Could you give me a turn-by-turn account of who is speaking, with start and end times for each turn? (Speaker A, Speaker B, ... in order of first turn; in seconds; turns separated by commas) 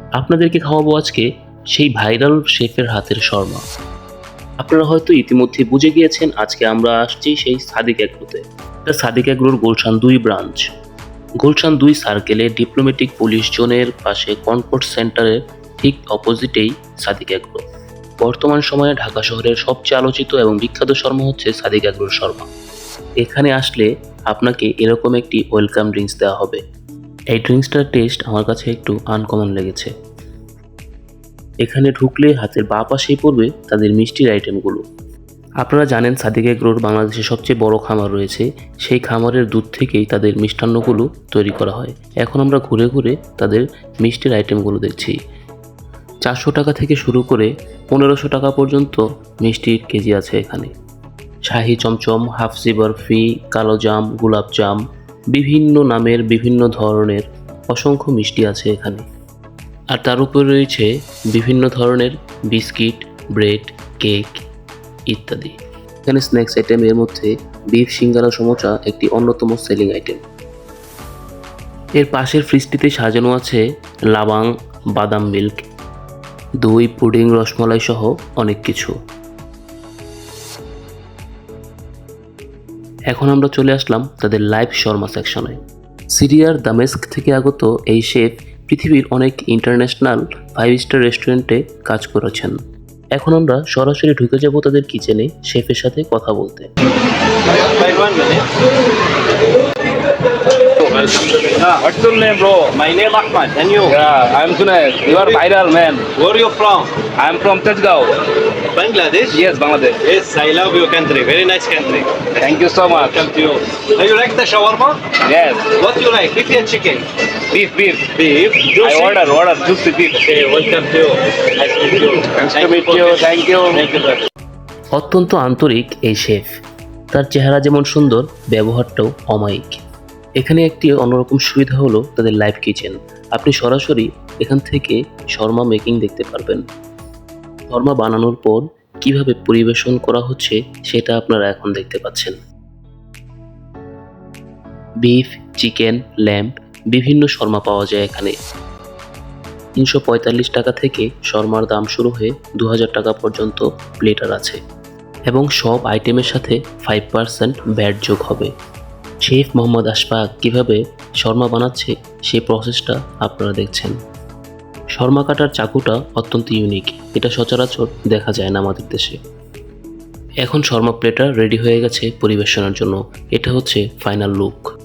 Speaker A: 0.2-3.6, Speaker A: 4.6-10.7, Speaker A: 11.4-17.6, Speaker A: 18.2-22.5, Speaker A: 23.2-26.6, Speaker A: 27.3-29.9, Speaker A: 31.6-34.8, Speaker A: 35.6-45.1, Speaker A: 46.2-50.7, Speaker A: 51.5-54.8, Speaker A: 55.3-59.0, Speaker A: 59.9-64.4, Speaker A: 65.1-65.5, Speaker A: 66.1-70.2, Speaker A: 72.0-75.6, Speaker A: 76.6-78.9, Speaker A: 83.1-85.6, Speaker A: 86.2-92.6, Speaker A: 93.1-96.7, Speaker B: 97.5-98.5, Speaker C: 100.9-102.7, Speaker B: 100.9-101.8, Speaker B: 102.7-104.0, Speaker C: 103.9-106.1, Speaker B: 106.1-107.1, Speaker C: 107.2-108.1, Speaker B: 108.7-109.4, Speaker C: 109.3-110.0, Speaker B: 110.0-112.4, Speaker C: 112.3-113.2, Speaker B: 113.0-115.0, Speaker C: 115.2-115.7, Speaker B: 115.7-117.0, Speaker C: 117.5-118.1, Speaker B: 118.1-119.2, Speaker C: 118.8-120.4, Speaker B: 120.3-124.3, Speaker C: 122.2-123.8, Speaker A: 124.9-126.5, Speaker A: 127.1-129.8, Speaker A: 130.4-136.6, Speaker A: 137.7-142.3, Speaker A: 145.0-148.3, Speaker A: 149.8-154.6, Speaker A: 155.3-158.5, Speaker A: 159.2-163.9, Speaker A: 165.0-169.2, Speaker A: 170.4-174.6